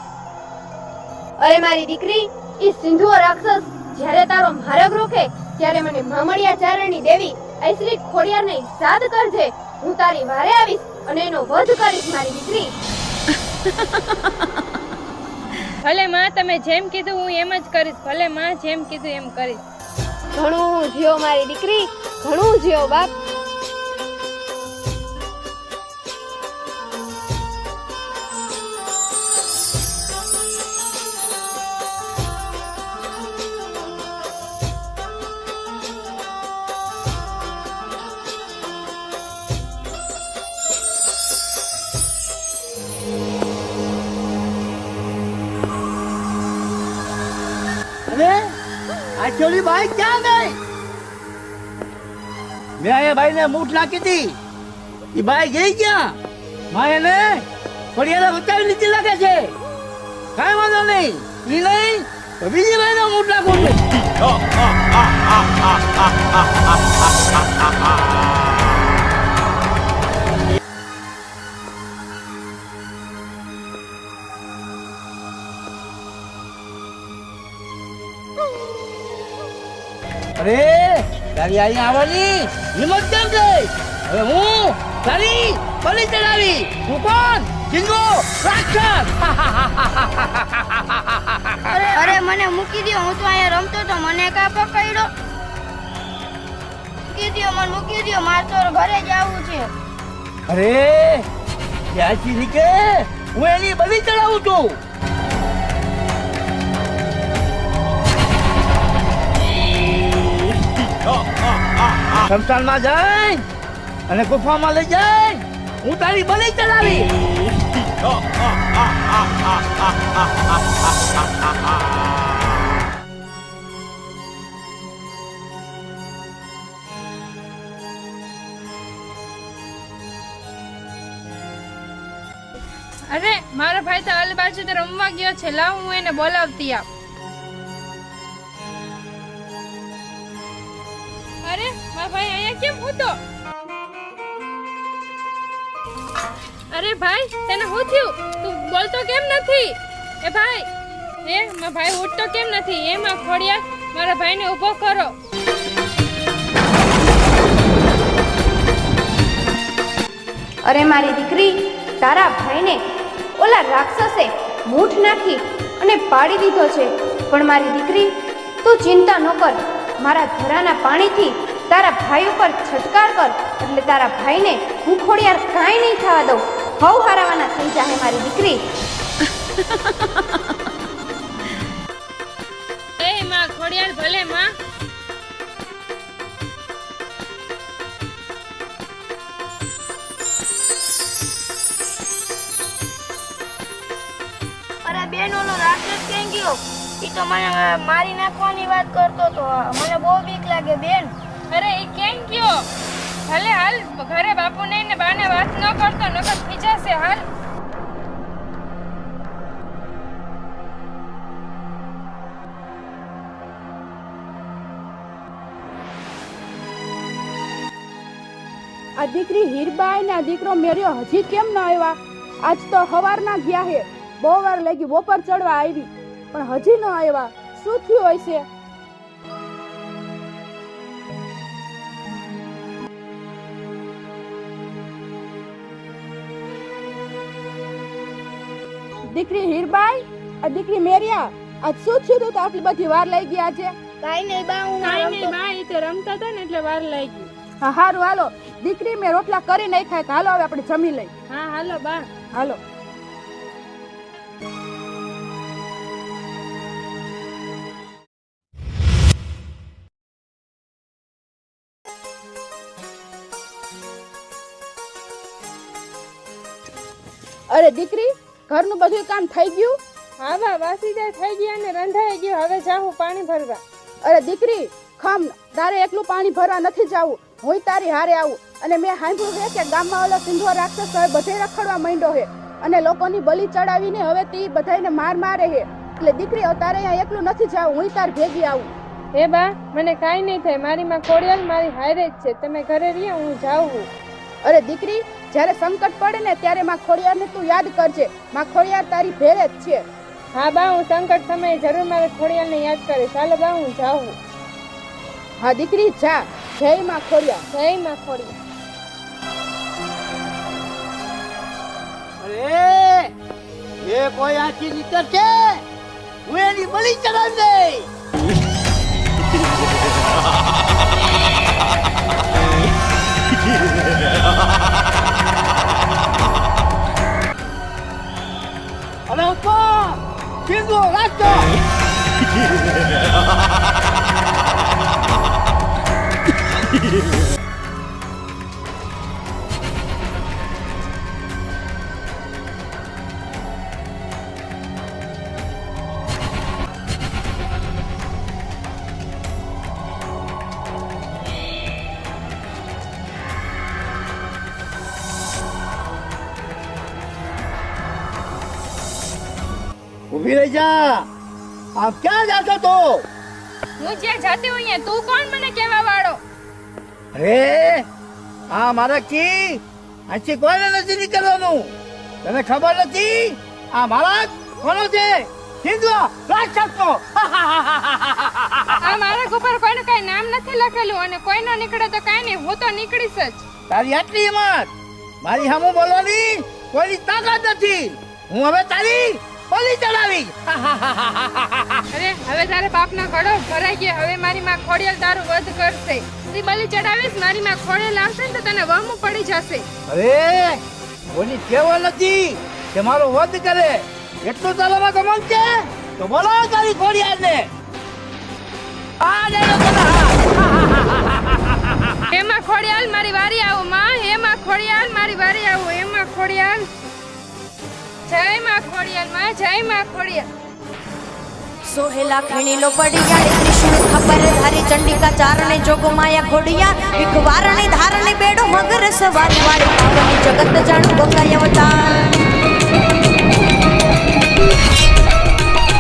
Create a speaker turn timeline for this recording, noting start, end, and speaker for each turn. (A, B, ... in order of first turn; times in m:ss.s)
0:01.4-0:12.7 A
0:15.8-0:19.6 B
0:20.4-0:23.1 A
0:48.1-0:48.5 C
0:49.2-0:50.6 C
0:52.8-0:54.4 C
0:55.1-0:56.2 C
0:56.7-0:59.5 C
1:00.4-1:03.8 C
1:20.4-1:32.1 C
1:31.7-1:35.1 D
1:37.1-1:39.7 D
1:40.5-1:41.3 C
1:41.9-1:44.8 C
1:52.1-1:53.4 C
1:54.1-1:57.1 C
2:13.1-2:16.9 B
2:21.4-2:23.2 B
2:26.7-2:30.7 B
2:31.3-2:35.1 B
2:40.6-2:42.8 A
2:43.4-2:58.6 A
3:03.0-3:04.5 B
3:14.8-3:21.1 D
3:21.5-3:22.7 B
3:23.3-3:27.2 B
3:39.0-3:48.4 E
3:59.1-4:03.7 E
4:04.0-4:05.3 D
4:04.8-4:07.3 B
4:07.6-4:11.1 E
4:11.3-4:12.1 B
4:12.3-4:12.6 E
4:27.5-4:29.8 E
4:30.2-4:33.6 B
4:34.0-4:48.7 E
4:49.1-4:53.9 B
4:54.4-4:59.8 E
5:00.3-5:04.2 B
5:05.4-5:07.4 E
5:07.5-5:08.4 B
5:12.2-5:13.1 C
5:13.8-5:15.6 C
5:16.3-5:17.9 C
5:29.1-5:31.5 C
6:00.1-6:01.1 C
6:01.8-6:03.1 C
6:03.8-6:06.2 B
6:07.1-6:07.9 C
6:08.5-6:19.0 C
6:18.8-6:23.4 B
6:23.7-6:24.7 C
6:25.2-6:31.8 C
6:31.9-6:39.7 B
6:39.9-6:40.6 C
6:41.1-6:47.5 C
6:49.0-6:52.0 C
6:52.1-6:56.7 B
6:58.1-7:00.3 B
7:01.7-7:12.1 F